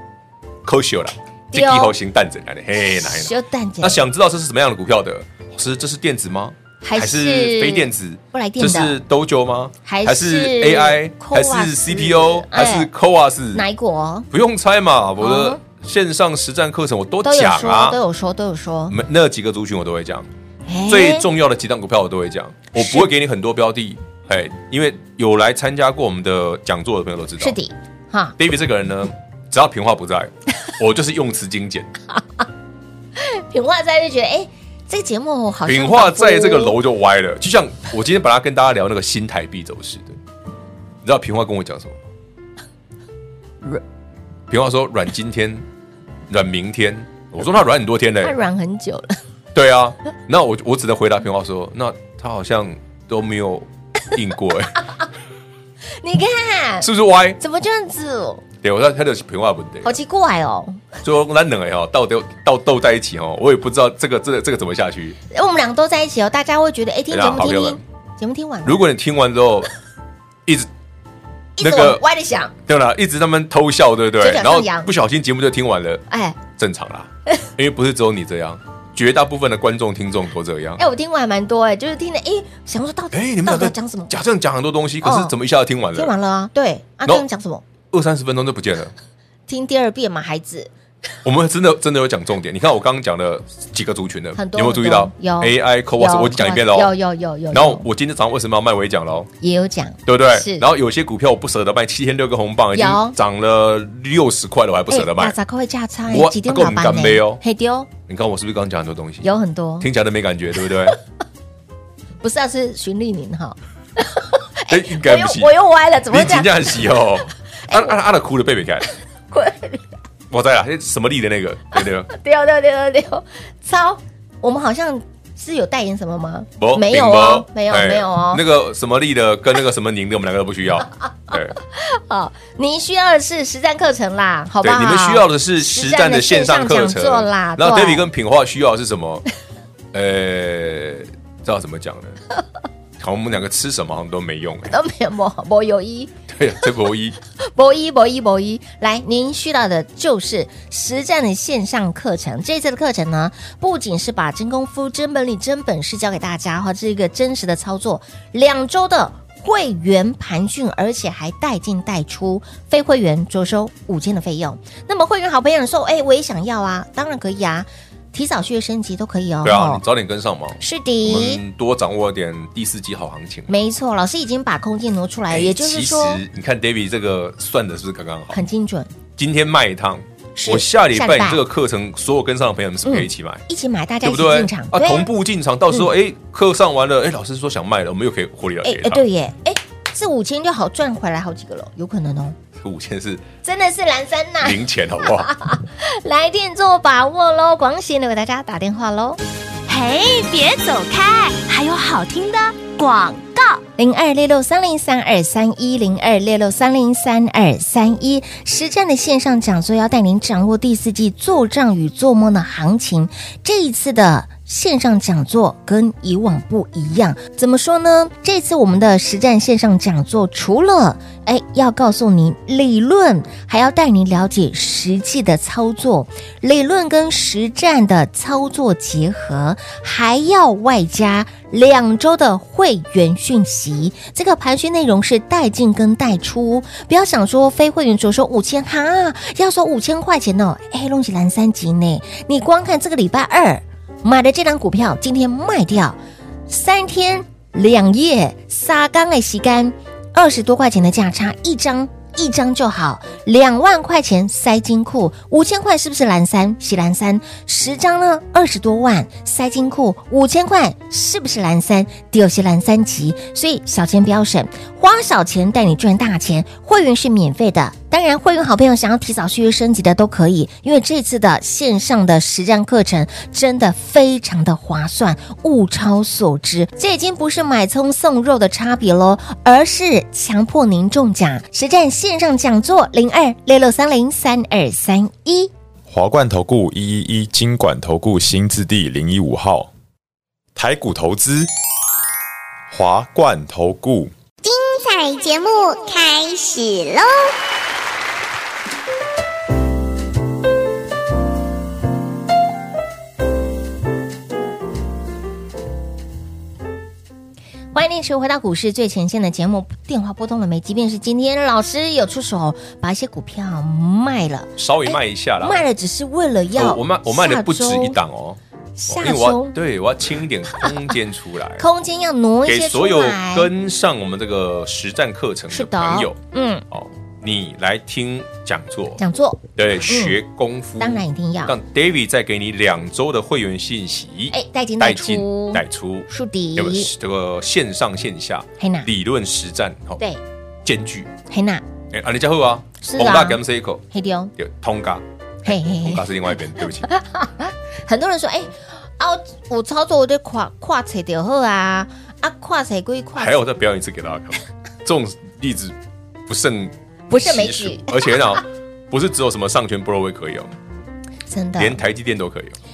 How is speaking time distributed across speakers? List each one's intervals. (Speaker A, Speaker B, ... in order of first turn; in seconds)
Speaker A: 0.7-13.7, 14.3-18.0, 18.9-20.3, 20.9-27.6, 28.4-31.9, 35.7-40.2, 41.0-42.0, 44.5-45.7, 46.3-48.4, 49.5-54.9, 56.8-57.4, 58.6-60.0, 61.0-65.2, 67.1-67.8, 68.6-69.7, 71.6-72.0, 72.7-80.8, 83.1-86.1, 87.9-88.9, 91.2-96.9, 97.5-99.3, 100.1-105.4, 106.1-107.4, 108.1-109.3, 109.8-111.0, 114.7-115.6, 116.1-118.9, 120.3-122.1, 126.6-131.6, 134.6-139.2, 139.9-142.2, 143.0-144.8, 146.3-147.2, 169.4-173.5, 175.3-178.4, 179.2-183.4, 184.0-189.1, 192.6-193.2, 194.4-195.3, 314.6-315.6, 316.6-321.6, 322.4-326.2, 326.7-329.0, 329.6-340.0, 340.6-341.1, 341.9-343.8, 344.4-346.9, 353.1-355.8, 356.3-360.6, 361.6-362.6
Speaker B: 1.5-1.9, 2.8-4.0, 6.8-9.0, 9.8-12.9, 13.5-14.3, 15.2-15.6, 17.2-19.0, 20.7-21.3, 22.8-23.1, 27.4-28.4, 32.2-32.4, 33.2-36.8, 48.2-49.2, 56.0-58.4, 59.8-61.0, 65.3-68.8, 71.6-72.5, 74.2-74.9, 76.1-76.4, 80.8-84.2, 85.0-85.3, 85.9-87.6, 89.5-90.7, 94.3-97.8, 99.4-100.7, 102.7-103.2, 104.9-107.9, 109.2-109.9, 112.2-117.0, 117.6-118.0, 119.3-119.9, 122.1-128.4, 131.3-138.1, 144.7-146.1, 147.4-169.8, 170.6-171.4, 173.5-176.2, 178.3-178.9, 180.4-181.4, 182.8-185.1, 188.6-192.4, 193.4-199.2, 203.8-285.5, 307.7-318.0, 318.8-319.6, 321.6-323.5, 325.5-326.6, 329.0-330.2, 330.8-331.6, 334.3-336.9, 338.6-338.9, 341.3-341.6, 342.8-343.4, 343.9-344.3, 345.4-346.1, 346.8-353.4, 357.1-358.4, 361.3-361.8
Speaker C: 199.7-203.6
Speaker D: 285.9-289.7, 290.6-291.5, 292.7-294.1
Speaker E: 294.4-297.3